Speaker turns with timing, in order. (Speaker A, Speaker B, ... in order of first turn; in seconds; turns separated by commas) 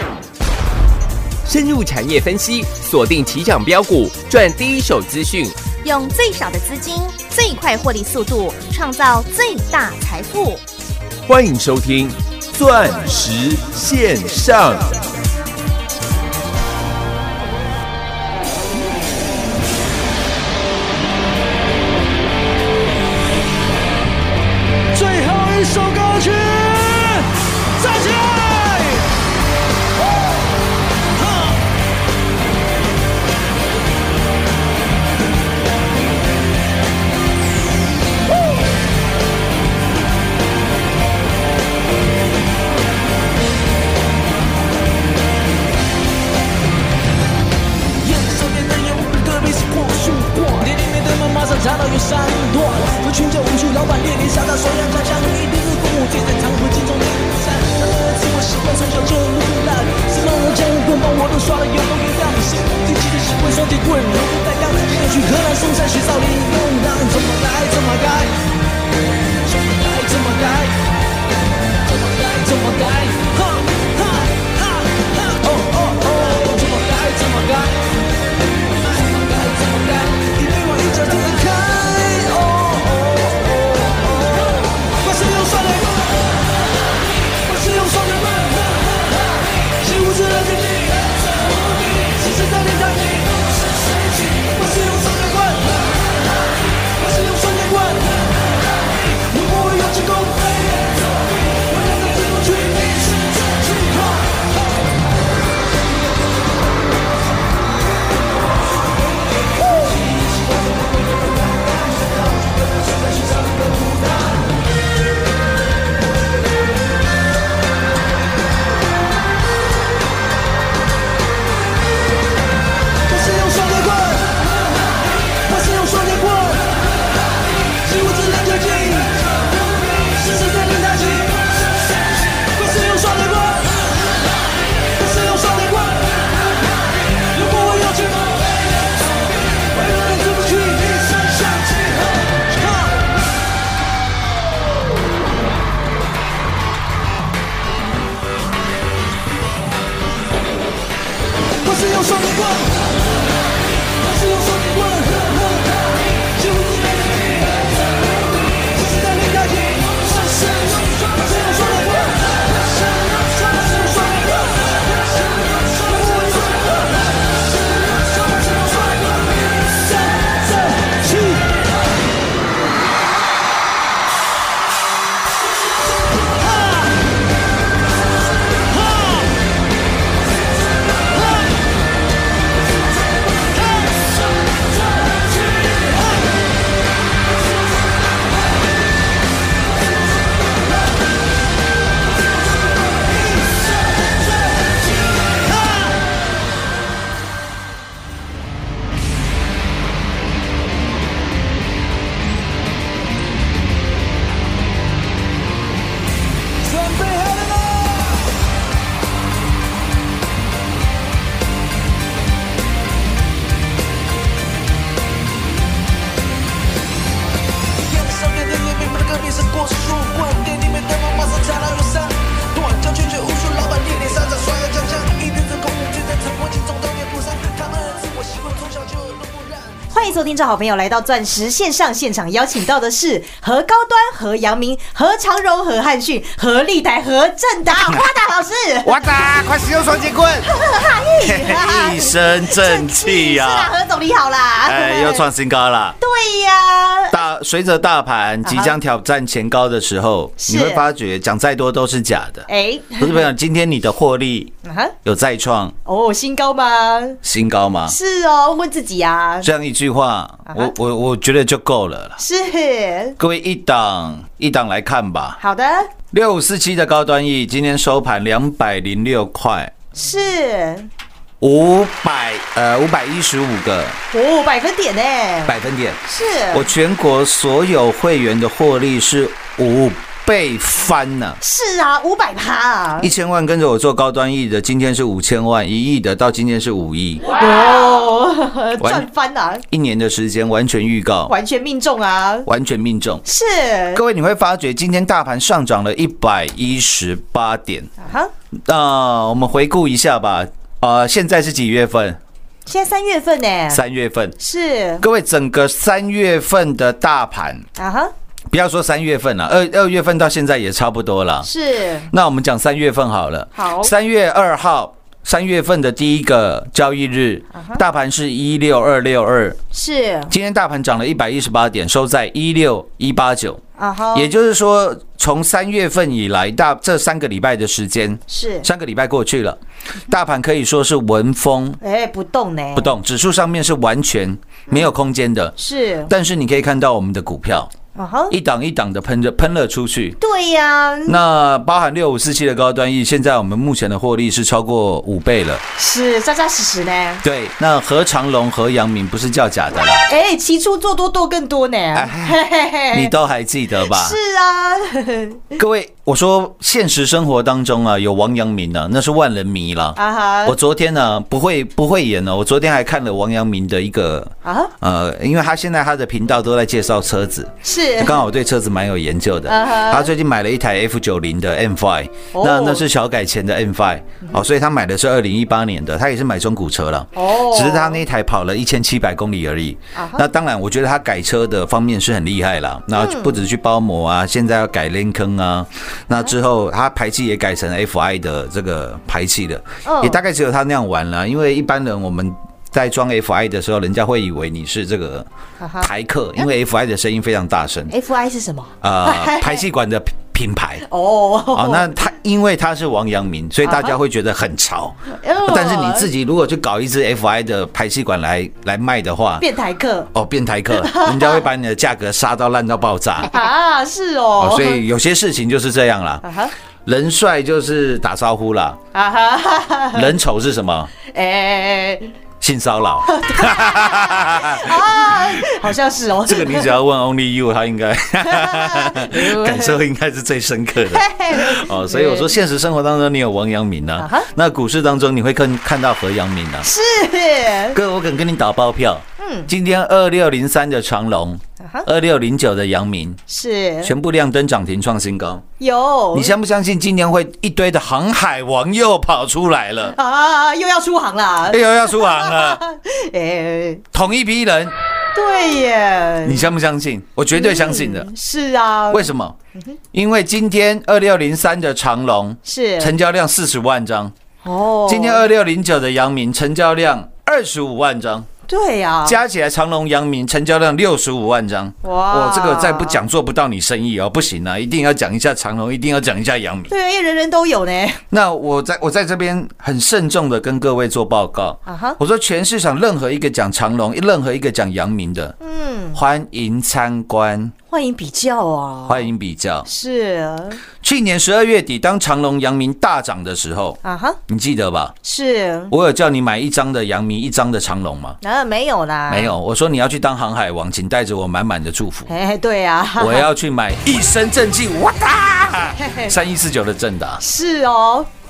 Speaker A: 1.4-5.6, Speaker B: 5.8-10.6, Speaker A: 11.3-14.9, Speaker C: 24.9-29.1, Speaker C: 31.1-31.6, Speaker C: 48.0-68.3, Speaker C: 69.4-70.8, Speaker C: 71.8-78.0, Speaker C: 78.5-86.4, Speaker C: 87.4-96.0, Speaker C: 96.9-104.5, Speaker C: 111.4-112.1, Speaker C: 112.9-114.2, Speaker C: 123.1-124.7, Speaker C: 125.4-126.9, Speaker C: 127.8-133.8, Speaker C: 134.9-136.5, Speaker C: 137.1-143.1, Speaker C: 151.6-153.0, Speaker C: 154.0-171.6, Speaker C: 176.3-177.0, Speaker C: 178.7-179.3, Speaker C: 181.1-181.6, Speaker C: 183.3-184.2, Speaker C: 185.0-186.3, Speaker C: 194.5-195.9, Speaker C: 206.6-208.3, Speaker C: 217.8-229.8, Speaker D: 229.9-239.0, Speaker E: 238.8-240.5, Speaker D: 240.4-245.2, Speaker E: 241.2-243.7, Speaker E: 244.6-246.0, Speaker D: 246.0-247.2, Speaker E: 247.1-252.5, Speaker D: 248.4-248.7, Speaker D: 250.4-250.8, Speaker D: 252.5-253.3, Speaker E: 253.0-254.5, Speaker D: 254.6-254.9, Speaker E: 255.0-255.7, Speaker D: 255.8-257.2, Speaker E: 257.2-257.9, Speaker D: 257.9-259.5, Speaker E: 259.4-262.2, Speaker D: 260.5-260.7, Speaker D: 262.2-263.2, Speaker E: 263.2-265.4, Speaker D: 265.4-265.9, Speaker E: 266.1-269.7, Speaker D: 269.9-270.9, Speaker E: 271.4-274.0, Speaker D: 274.1-275.5, Speaker E: 275.4-276.0, Speaker D: 276.1-276.7, Speaker E: 276.5-281.4, Speaker D: 281.4-283.1, Speaker E: 283.0-287.2, Speaker D: 287.4-289.6, Speaker E: 288.8-289.1, Speaker E: 289.7-291.3, Speaker D: 291.3-292.5, Speaker E: 292.4-293.2, Speaker D: 293.2-294.0, Speaker E: 293.9-297.9, Speaker D: 298.0-298.3, Speaker E: 298.5-302.2, Speaker D: 302.6-303.8, Speaker E: 303.7-304.4, Speaker D: 304.4-305.0, Speaker E: 305.0-307.6, Speaker D: 307.8-308.1, Speaker E: 308.5-311.5, Speaker D: 311.4-312.1, Speaker E: 312.1-319.6, Speaker D: 313.5-313.9, Speaker D: 317.5-317.8, Speaker D: 319.7-320.3, Speaker E: 320.3-323.6, Speaker D: 323.8-324.3, Speaker E: 324.1-331.8, Speaker D: 328.3-328.7, Speaker D: 331.8-332.9, Speaker E: 332.7-335.5, Speaker D: 335.6-336.1, Speaker E: 336.1-337.7, Speaker D: 337.9-338.3, Speaker E: 338.3-340.2, Speaker D: 340.2-341.2, Speaker E: 341.1-345.6, Speaker D: 345.8-347.2, Speaker E: 347.2-350.1, Speaker D: 350.1-353.1, Speaker E: 351.9-352.4, Speaker E: 352.9-354.2, Speaker D: 353.9-355.4, Speaker E: 355.6-395.3, Speaker D: 359.9-360.6, Speaker D: 364.4-364.7, Speaker D: 367.6-368.2, Speaker D: 369.5-370.1, Speaker D: 372.3-372.8, Speaker D: 377.1-378.0, Speaker D: 379.9-380.2, Speaker D: 383.0-383.4, Speaker D: 389.8-390.2, Speaker D: 395.6-395.9, Speaker E: 395.8-397.9, Speaker D: 397.9-399.6, Speaker E: 398.8-400.9, Speaker D: 400.9-401.9, Speaker E: 401.5-409.4, Speaker D: 403.6-403.9, Speaker D: 405.1-406.1, Speaker D: 409.4-410.1, Speaker E: 410.1-413.3, Speaker D: 410.7-411.4, Speaker D: 413.3-414.8, Speaker E: 414.4-416.2, Speaker D: 416.2-416.5, Speaker E: 416.9-418.8, Speaker D: 418.9-420.1, Speaker E: 419.9-420.9, Speaker D: 421.0-422.1, Speaker E: 422.4-425.7, Speaker D: 423.0-426.7, Speaker E: 426.2-436.7, Speaker D: 428.2-429.8, Speaker D: 430.9-432.3, Speaker D: 434.0-434.3, Speaker D: 436.6-437.8, Speaker E: 437.7-443.2, Speaker D: 439.2-439.5, Speaker D: 443.3-443.9, Speaker E: 443.8-445.4, Speaker D: 445.6-446.3, Speaker E: 446.1-449.9, Speaker D: 449.9-453.8, Speaker E: 451.5-452.6, Speaker E: 453.9-454.7, Speaker D: 455.1-456.4, Speaker E: 456.2-458.1, Speaker D: 457.3-459.8, Speaker E: 458.9-459.3, Speaker E: 459.9-464.1, Speaker D: 462.4-462.9, Speaker D: 464.4-465.2, Speaker E: 464.9-468.3, Speaker D: 468.5-469.2, Speaker E: 469.0-476.7, Speaker D: 471.8-473.0, Speaker D: 476.7-478.0, Speaker E: 478.1-485.3, Speaker D: 481.6-482.0, Speaker D: 485.4-486.0, Speaker E: 485.9-487.5, Speaker D: 487.7-489.1, Speaker E: 488.9-489.7, Speaker D: 489.6-490.6, Speaker E: 490.8-494.9, Speaker D: 493.8-494.2, Speaker D: 495.0-495.7, Speaker E: 495.7-498.2, Speaker D: 498.2-499.3, Speaker E: 499.1-502.1, Speaker D: 502.1-503.3, Speaker E: 503.0-507.2, Speaker D: 505.8-506.1, Speaker D: 507.2-508.1